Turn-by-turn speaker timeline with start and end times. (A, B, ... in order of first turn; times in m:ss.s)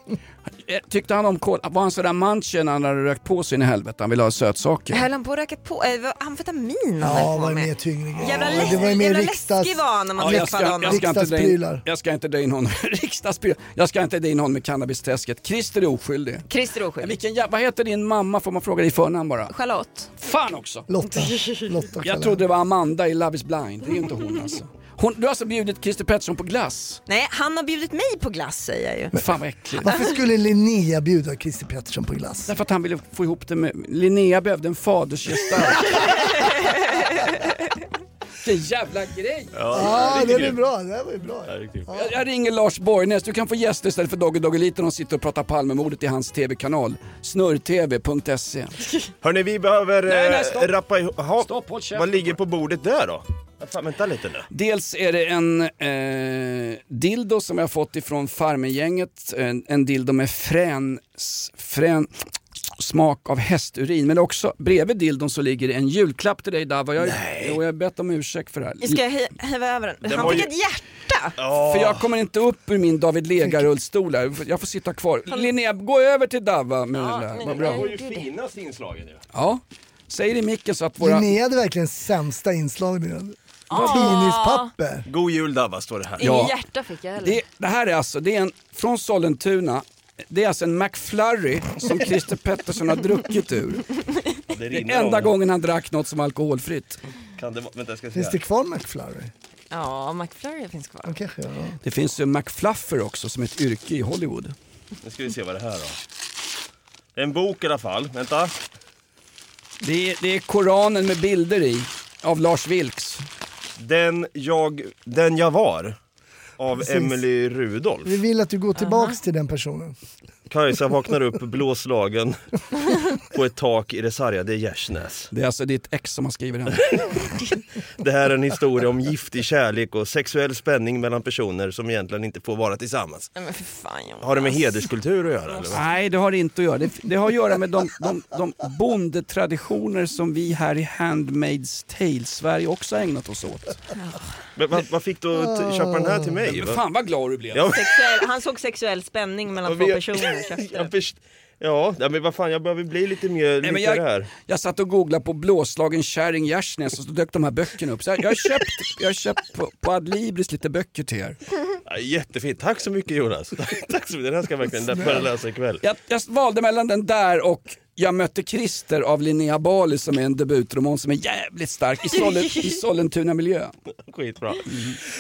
0:00.6-0:05.1 A
0:04.9-0:11.0 B
0:07.0-0:11.8 C
0:10.2-0:16.4 A
0:16.5-0:17.1 B
0:17.0-0:19.5 A
0:19.5-0:20.1 B
0:20.2-0:20.9 A
0:20.9-0:22.4 C
0:21.4-0:21.6 B
0:22.0-0:27.0 A
0:27.1-0:29.1 B
0:29.1-0:29.9 A
0:29.8-0:32.5 C
0:32.5-0:36.4 A
0:35.8-0:37.5 B
0:38.4-0:40.0 A
0:39.6-0:40.6 D
0:39.7-0:42.2 C
0:41.5-0:41.9 D
0:41.9-0:48.8 A
0:49.2-0:54.5 D
0:50.1-0:50.8 A
0:51.4-0:52.4 A
0:54.5-1:02.1 A
1:02.8-1:09.0 A
1:07.0-1:07.6 D
1:08.8-1:11.4 B
1:10.0-1:10.5 D
1:11.4-1:12.1 D
1:11.6-1:17.9 A
1:16.9-1:18.3 B
1:17.5-1:19.2 D
1:19.3-1:21.3 A
1:21.0-1:25.1 C
1:23.7-1:24.7 B
1:25.1-1:26.2 D
1:26.2-1:27.4 B
1:26.2-1:26.5 A
1:27.2-1:33.9 A
1:34.5-1:35.3 D
1:34.7-1:37.0 A
1:37.4-1:38.4 D
1:38.1-1:39.3 C
1:39.7-1:41.1 B
1:41.0-1:41.8 C
1:41.8-1:44.6 A
1:45.0-1:46.0 D
1:47.2-1:48.6 D
1:49.8-1:53.2 A
1:53.8-1:56.0 D
1:56.6-1:58.2 D
1:56.8-1:57.2 C
1:58.0-2:00.0 C
1:58.8-1:59.2 B
2:00.5-2:05.3 D
2:05.3-2:06.9 A
2:08.0-2:13.3 D
2:13.4-2:14.8 B
2:14.2-2:15.8 D
2:15.5-2:15.8 B
2:15.7-2:23.8 A
2:24.0-2:24.3 B
2:24.6-2:26.8 D
2:25.3-2:26.4 C
2:26.5-2:27.6 A
2:27.5-2:28.2 D
2:27.7-2:30.9 B
2:29.6-2:34.3 D
2:33.6-2:41.4 A
2:41.9-2:45.8 D
2:45.8-2:53.7 A
2:54.1-2:55.0 D